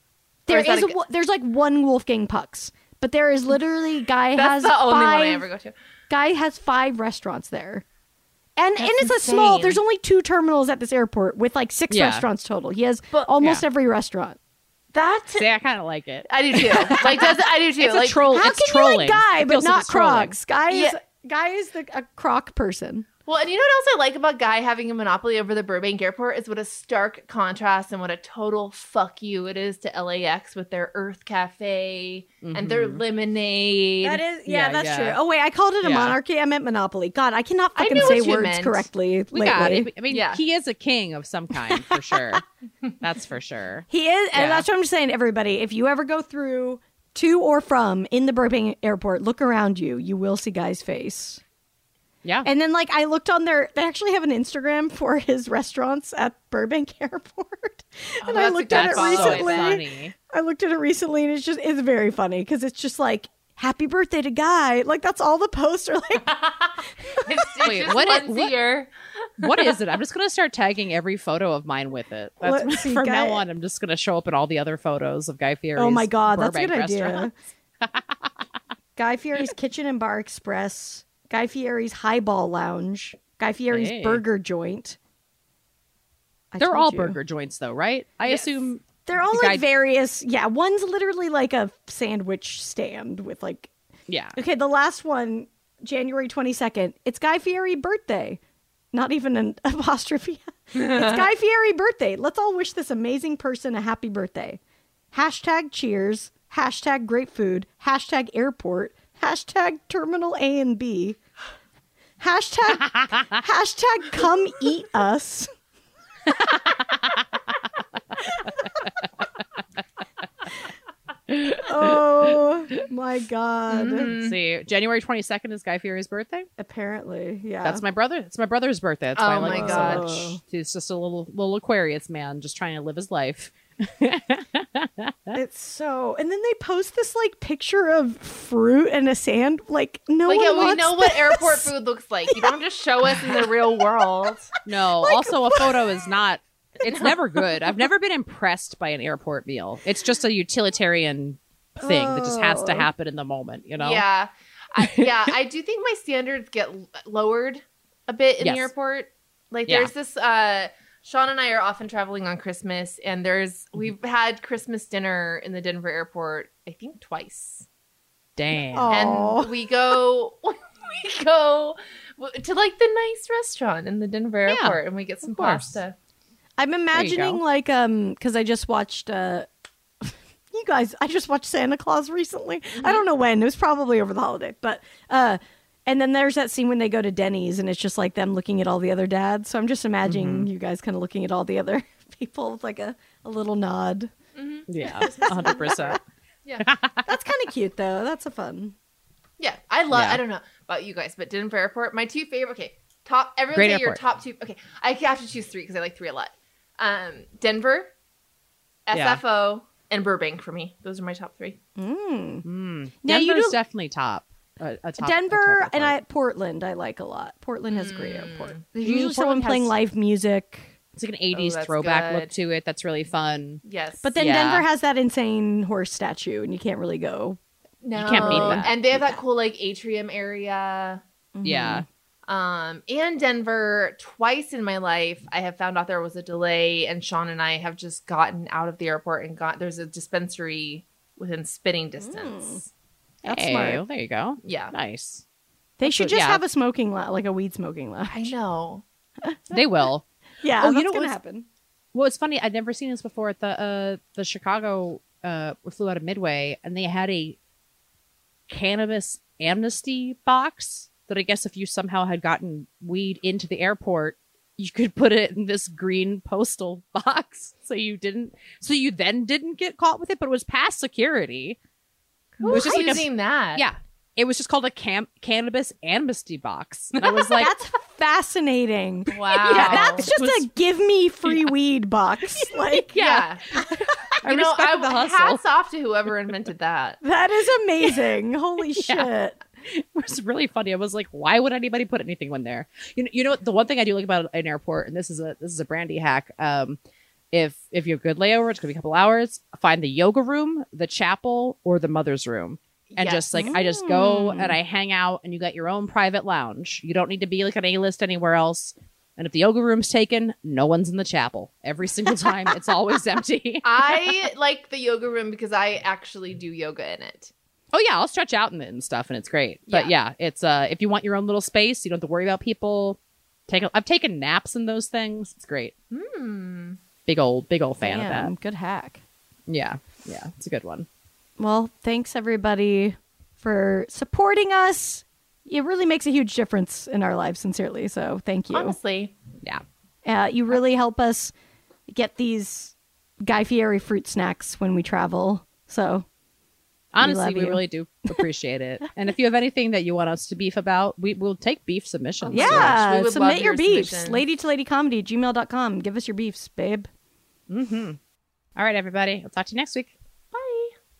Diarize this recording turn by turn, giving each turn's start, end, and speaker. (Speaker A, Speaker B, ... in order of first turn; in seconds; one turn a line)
Speaker A: 0.5-5.5
Speaker B: 0.5-0.9
Speaker B: 4.3-5.7
Speaker A: 6.1-7.8
Speaker A: 8.6-14.4
Speaker B: 8.8-9.8
Speaker C: 11.9-12.3
Speaker B: 14.9-15.5
Speaker C: 15.3-20.4
Speaker B: 16.3-18.2
Speaker A: 18.3-23.1
Speaker B: 20.7-20.9
Speaker B: 23.2-34.2
Speaker C: 32.4-33.0
Speaker A: 34.0-39.9
Speaker C: 34.5-35.2
Speaker C: 35.8-36.2
Speaker B: 37.7-38.9
Speaker C: 39.3-42.4
Speaker B: 40.1-40.4
Speaker A: 41.7-42.4
Speaker C: 43.0-44.6
Speaker A: 43.9-51.4
Speaker A: 52.4-67.5
Speaker B: 58.2-59.7
Speaker C: 58.6-60.1
Speaker B: 67.2-69.6
Speaker C: 67.6-68.6
Speaker C: 69.4-77.3
Speaker A: 72.4-73.4
Speaker A: 75.8-77.3
Speaker C: 77.8-78.2
Speaker A: 79.0-85.0
Speaker C: 83.7-84.2
Speaker A: 86.5-87.2
Speaker C: 86.6-89.6
Speaker A: 89.0-93.7
Speaker C: 94.1-94.4
Speaker A: 94.3-98.4
Speaker A: 98.9-104.6
Speaker A: 105.1-111.2
Speaker A: 112.2-115.5
Speaker C: 116.4-116.7
Speaker A: 121.5-124.1
Speaker B: 123.7-124.3
Speaker C: 124.1-126.5
Speaker A: 126.6-127.8
Speaker C: 127.6-135.1
Speaker B: 129.2-130.0
Speaker A: 129.4-130.4
Speaker A: 135.3-141.7
Speaker B: 140.3-144.4
Speaker A: 142.3-142.5
Speaker A: 143.1-143.5
Speaker C: 144.6-154.0
Speaker A: 145.0-146.1
Speaker A: 151.8-152.9
Speaker B: 153.8-167.6
Speaker C: 155.0-155.3
Speaker C: 158.4-158.7
Speaker C: 168.3-169.0
Speaker A: 168.7-169.5
Speaker B: 168.9-175.9
Speaker C: 174.5-175.8
Speaker A: 176.6-179.5
Speaker C: 176.9-177.4
Speaker A: 180.0-194.1
Speaker C: 190.0-190.5
Speaker B: 194.3-195.3
Speaker C: 194.7-196.0
Speaker A: 194.8-196.0
Speaker C: 196.6-197.0
Speaker A: 197.1-198.7
Speaker B: 199.4-207.9
Speaker C: 199.9-200.2
Speaker C: 203.5-204.0
Speaker B: 208.9-211.6
Speaker C: 208.9-209.2
Speaker A: 211.8-212.4
Speaker C: 212.4-215.9
Speaker A: 213.0-213.6
Speaker A: 215.0-220.7
Speaker B: 217.7-218.6
Speaker C: 218.8-219.7
Speaker C: 220.9-223.6
Speaker B: 221.3-222.3
Speaker B: 223.6-224.1
Speaker A: 224.0-227.4
Speaker C: 224.2-224.6
Speaker B: 227.8-231.0
Speaker C: 227.9-228.8
Speaker A: 228.2-228.7
Speaker A: 231.3-231.8
Speaker C: 231.4-231.8
Speaker B: 232.2-242.6
Speaker A: 242.0-242.6
Speaker A: 243.2-243.8
Speaker C: 243.2-245.2
Speaker B: 244.4-244.7
Speaker A: 245.8-248.3
Speaker C: 245.8-246.4
Speaker B: 248.1-248.8
Speaker A: 249.2-249.6
Speaker C: 249.5-250.0
Speaker A: 250.4-251.5
Speaker C: 250.6-251.2
Speaker C: 251.9-257.4
Speaker C: 258.5-271.6
Speaker A: 272.4-272.8
Speaker B: 272.4-273.6
Speaker C: 272.4-277.5
Speaker B: 277.0-277.2
Speaker A: 277.4-283.0
Speaker B: 279.1-280.0
Speaker C: 279.1-280.5
Speaker C: 281.2-281.5
Speaker C: 282.4-285.4
Speaker B: 283.0-283.4
Speaker A: 283.5-283.8
Speaker B: 284.2-287.0
Speaker A: 287.0-289.4
Speaker C: 288.8-289.1
Speaker C: 289.7-296.8
Speaker C: 297.3-314.2
Speaker B: 302.9-303.5
Speaker A: 303.3-304.6
Speaker B: 313.6-317.3
Speaker C: 317.7-325.7
Speaker B: 319.7-319.9
Speaker B: 325.9-326.8
Speaker C: 327.1-328.3
Speaker A: 327.8-329.0
Speaker C: 329.5-330.9
Speaker A: 331.4-338.8
Speaker B: 338.5-339.1
Speaker A: 340.0-341.3
Speaker A: 341.9-346.1
Speaker C: 346.9-352.8
Speaker A: 347.0-348.2
Speaker B: 352.3-354.2
Speaker A: 352.3-356.9
Speaker C: 357.5-358.0
Speaker C: 358.6-359.9
Speaker B: 360.3-360.7